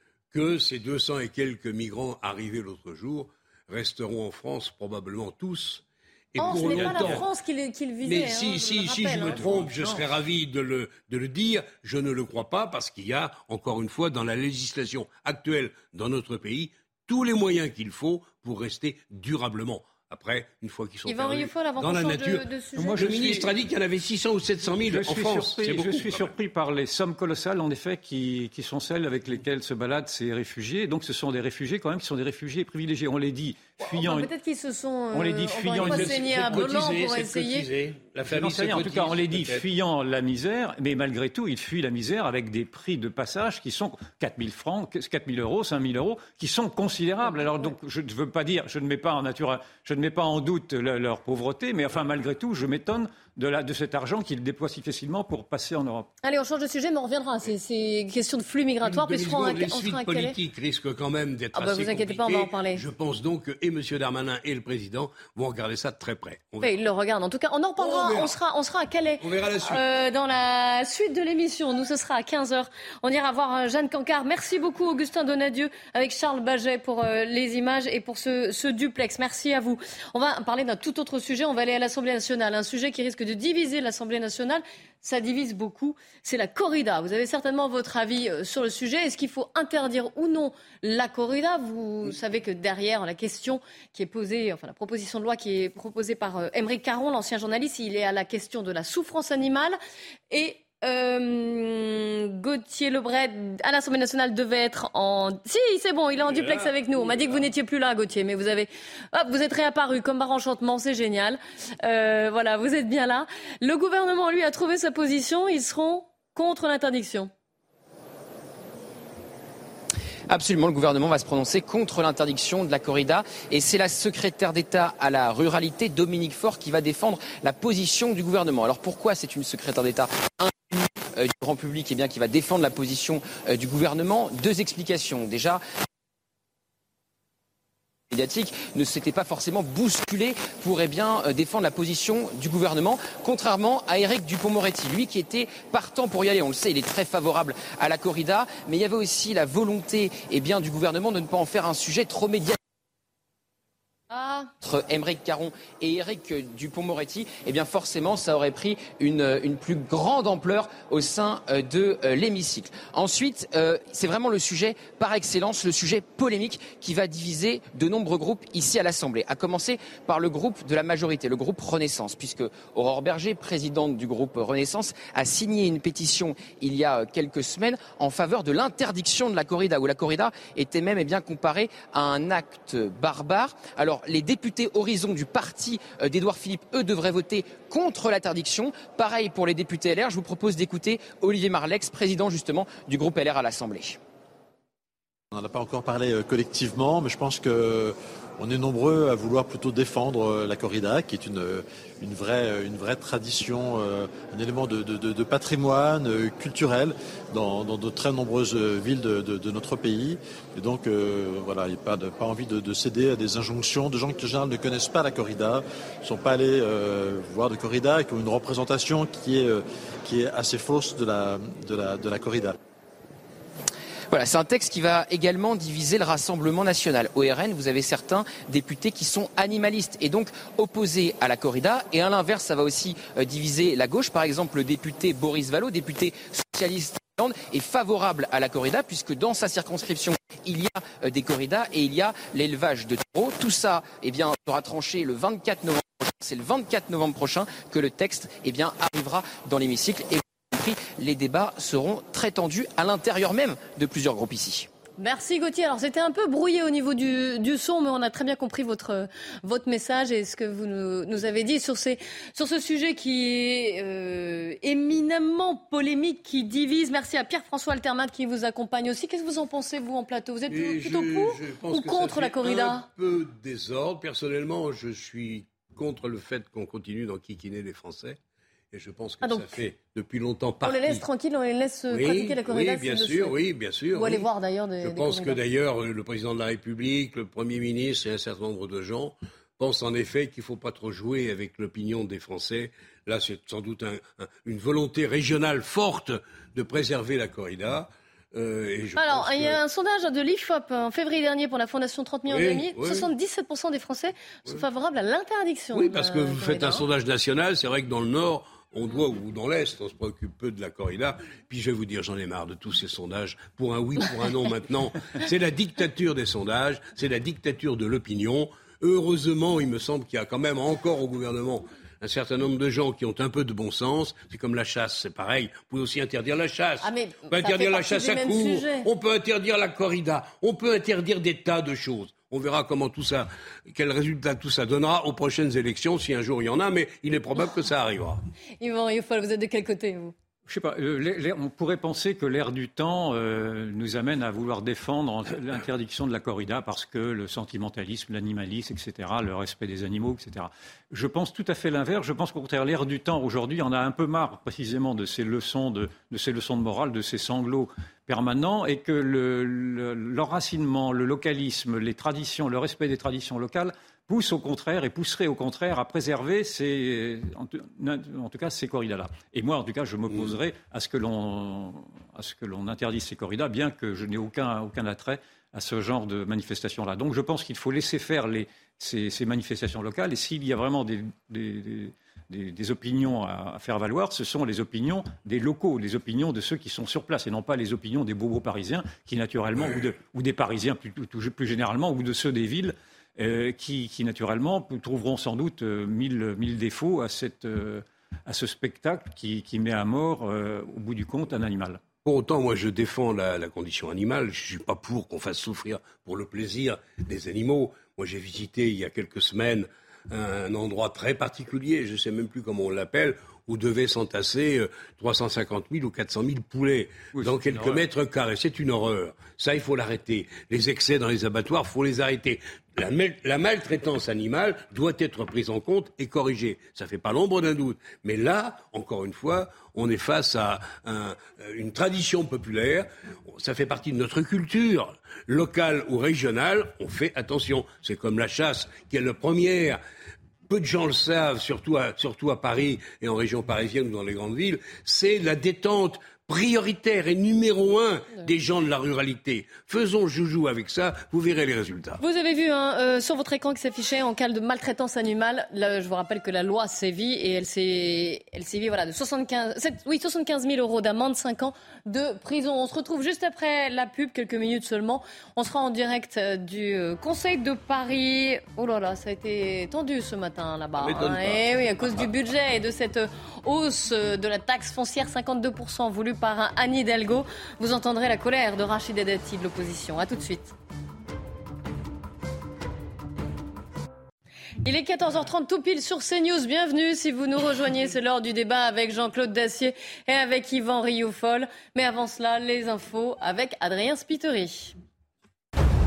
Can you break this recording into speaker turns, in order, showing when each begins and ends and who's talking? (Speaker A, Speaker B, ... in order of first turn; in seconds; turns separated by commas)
Speaker A: 0.3-7.2, Speaker B: 6.4-9.4, Speaker C: 6.4-7.2, Speaker A: 8.0-22.4, Speaker C: 9.2-10.0, Speaker B: 21.1-23.1, Speaker C: 22.7-23.5, Speaker A: 23.0-26.3, Speaker C: 24.7-34.3, Speaker B: 33.9-37.7, Speaker C: 35.1-36.3, Speaker A: 35.7-39.6, Speaker C: 38.2-56.1, Speaker B: 47.2-47.7, Speaker B: 56.2-60.3, Speaker A: 58.8-66.7, Speaker B: 61.5-62.8, Speaker B: 66.6-99.8, Speaker A: 67.8-68.3, Speaker A: 69.2-69.8, Speaker B: 100.3-117.3, Speaker A: 106.2-107.5, Speaker D: 120.3-135.6, Speaker D: 138.1-152.6, Speaker B: 154.1-154.5, Speaker D: 154.6-194.0, Speaker E: 195.3-222.6, Speaker D: 224.1-254.7, Speaker B: 255.0-272.9, Speaker A: 270.5-278.2, Speaker A: 278.7-281.0, Speaker B: 279.2-279.6, Speaker B: 280.6-283.3, Speaker A: 281.9-284.3, Speaker B: 283.9-285.4, Speaker A: 284.8-299.6, Speaker B: 299.0-306.8, Speaker A: 302.3-303.1, Speaker A: 305.7-338.2, Speaker B: 326.8-328.9, Speaker B: 338.6-340.1, Speaker C: 340.5-401.8, Speaker A: 370.1-370.4, Speaker A: 389.6-389.8, Speaker A: 402.0-439.8, Speaker C: 417.1-417.8, Speaker A: 440.5-452.0, Speaker B: 452.0-480.5, Speaker A: 470.8-472.1, Speaker B: 484.6-494.7